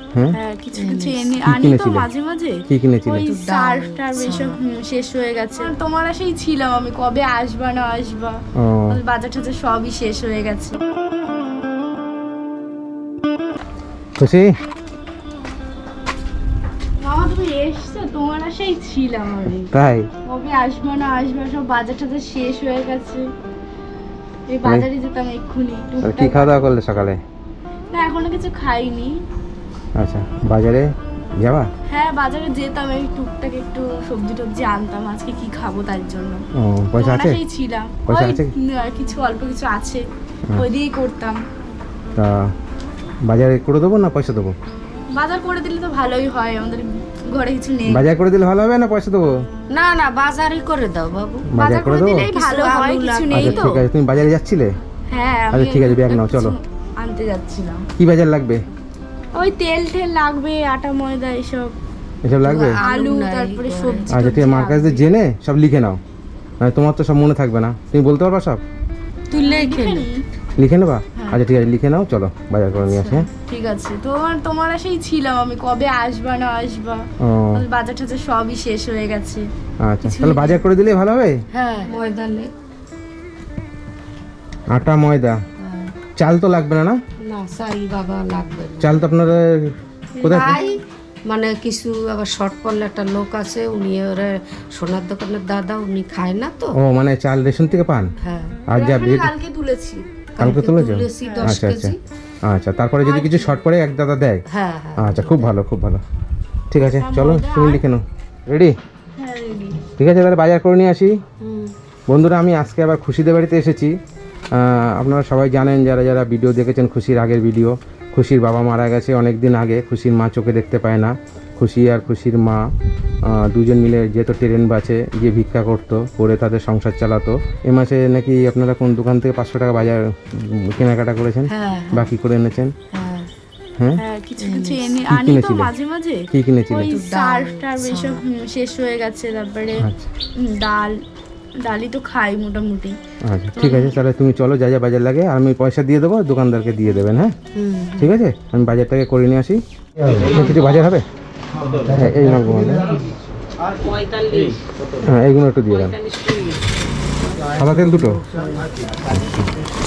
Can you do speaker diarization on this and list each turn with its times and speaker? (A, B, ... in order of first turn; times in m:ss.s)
0:00.3-0:08.4 A
0:00.7-0:01.4 B
0:01.4-0:02.1 C
0:02.7-0:03.3 C
0:03.2-0:04.6 B
0:08.6-0:09.0 C
0:08.9-0:10.8 A
0:14.2-0:14.5 C
0:17.0-0:19.7 A
0:19.7-0:20.1 C
0:20.2-0:23.3 A
0:24.5-0:26.7 A
0:26.0-0:27.2 C
0:27.9-0:29.2 A
0:30.0-0:31.7 C
0:31.9-0:36.4 A
0:36.6-0:37.4 C
0:37.0-0:40.0 A
0:38.0-0:38.5 C
0:40.6-0:41.4 A
0:42.2-0:42.5 C
0:43.3-0:44.5 C
0:45.1-0:48.1 A
0:47.8-0:49.3 C
0:49.7-0:51.5 B
0:51.5-0:52.3 C
0:51.6-0:53.7 A
0:52.2-0:53.7 B
0:53.3-0:54.7 C
0:55.1-0:57.8 A
0:55.5-0:56.6 C
0:58.0-0:58.6 C
0:59.3-1:01.8 A
1:02.2-1:02.8 C
1:02.4-1:04.1 B
1:02.8-1:05.1 A
1:04.1-1:06.0 C
1:06.6-1:08.6 C
1:09.3-1:10.1 B
1:09.3-1:10.2 A
1:10.6-1:13.3 C
1:12.9-1:13.2 B
1:13.3-1:19.5 A
1:17.2-1:17.6 C
1:19.8-1:21.4 C
1:20.0-1:20.6 A
1:21.5-1:22.5 B
1:24.7-1:25.4 C
1:25.6-1:25.9 B
1:26.2-1:27.0 C
1:27.2-1:29.0 B
1:28.8-1:30.6 C
1:30.2-1:36.8 B
1:36.8-1:38.1 C
1:38.2-1:38.6 B
1:38.7-1:39.3 C
1:38.7-1:40.0 A
1:40.4-1:42.0 B
1:40.4-1:41.9 C
1:41.2-1:41.5 A
1:42.5-1:44.4 C
1:43.0-1:43.6 A
1:44.5-1:45.5 B
1:45.0-1:46.0 C
1:46.7-1:48.7 C
1:46.8-1:47.8 A
1:49.2-1:49.8 A
1:50.0-1:51.2 C
1:51.4-1:51.7 B
1:52.1-1:53.9 C
1:54.5-2:02.6 C
2:03.3-2:12.7 C
2:11.5-2:12.1 B
2:12.9-2:13.3 B
2:14.0-2:21.0 A
2:14.4-2:14.9 B
2:15.0-2:15.7 C
2:16.3-2:17.0 C
2:16.9-2:18.2 B
2:19.8-2:20.0 C
2:21.6-2:23.0 A
2:23.2-2:27.3 C
2:23.5-2:24.0 A
2:27.5-2:28.1 B
2:28.0-2:31.0 C
2:31.9-2:33.0 C
2:35.0-2:36.0 C
2:37.5-2:38.2 C
2:39.1-2:39.4 C